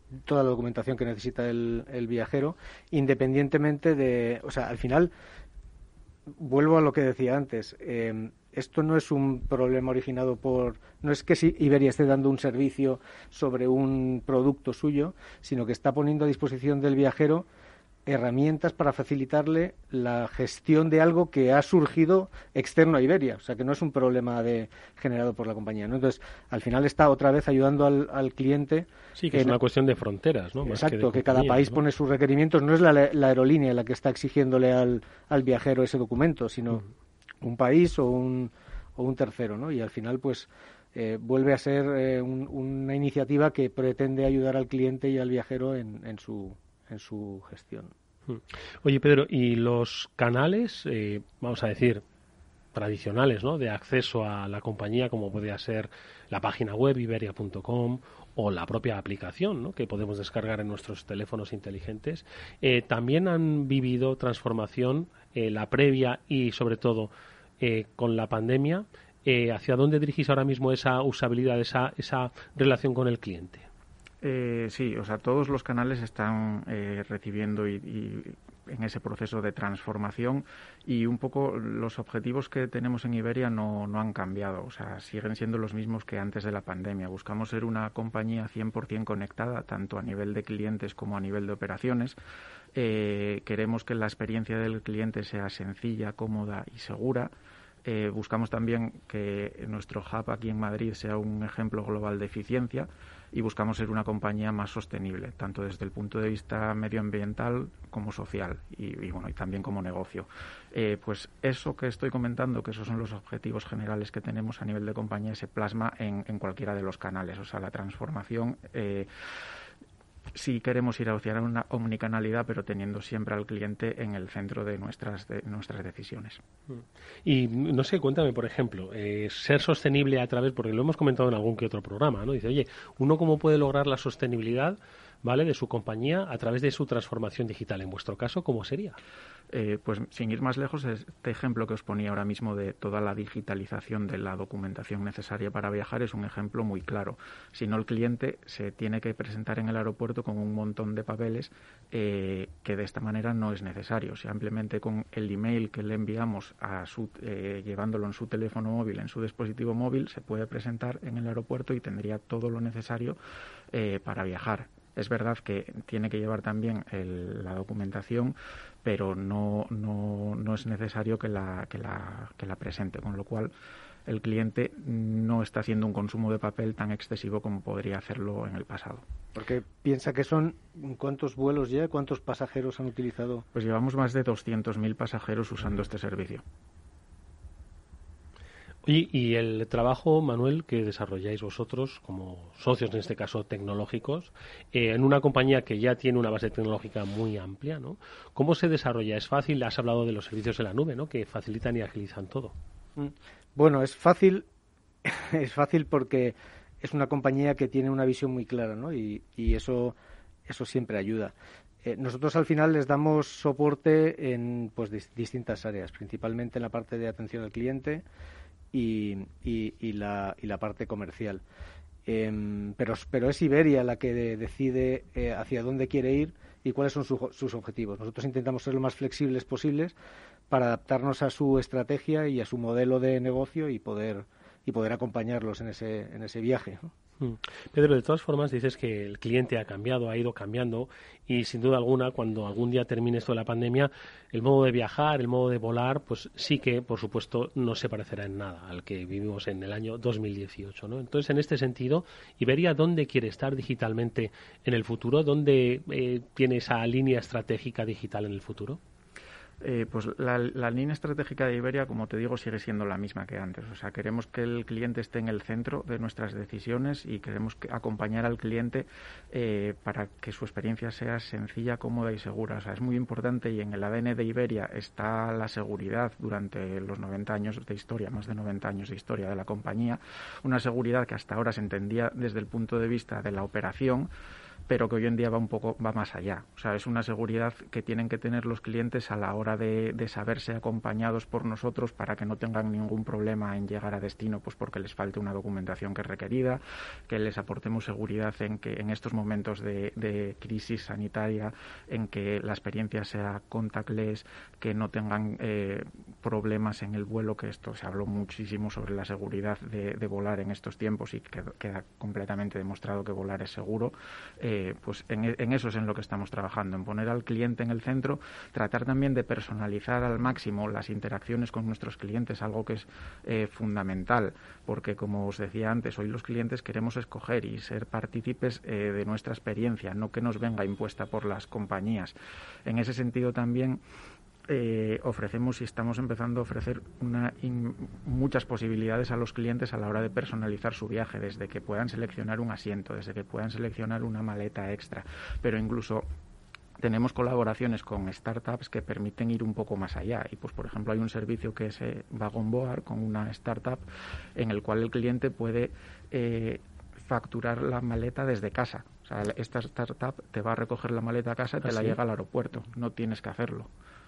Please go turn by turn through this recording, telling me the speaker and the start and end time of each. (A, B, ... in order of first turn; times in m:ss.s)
0:00.2-0:05.1 A
0:06.3-0:17.4 A
0:18.0-0:29.6 A
0:29.2-0:31.8 B
0:30.6-0:36.8 A
0:37.4-0:47.9 A
0:48.3-0:52.0 B
0:52.7-1:13.7 B
1:14.2-1:32.2 C
1:32.8-1:37.3 C
1:37.8-1:59.1 C
2:00.3-2:06.4 C
2:06.7-2:19.0 B
2:19.5-2:43.2 C
2:43.7-2:53.5 C
2:54.1-2:59.0 C
2:59.3-3:03.4 A
3:03.5-3:06.4 C
3:08.8-3:22.5 B
3:23.0-3:24.4 A
3:25.0-3:29.9 A
3:30.4-3:38.0 A
3:38.7-3:41.4 A
3:42.1-3:49.9 A
3:50.5-3:56.9 A
3:57.2-4:18.8 B
4:19.6-4:44.1 C
4:44.7-5:32.1 C
5:32.6-5:33.8 C
5:34.5-5:46.0 C
5:46.8-5:53.8 C
5:54.4-6:03.7 C
6:01.7-6:02.0 B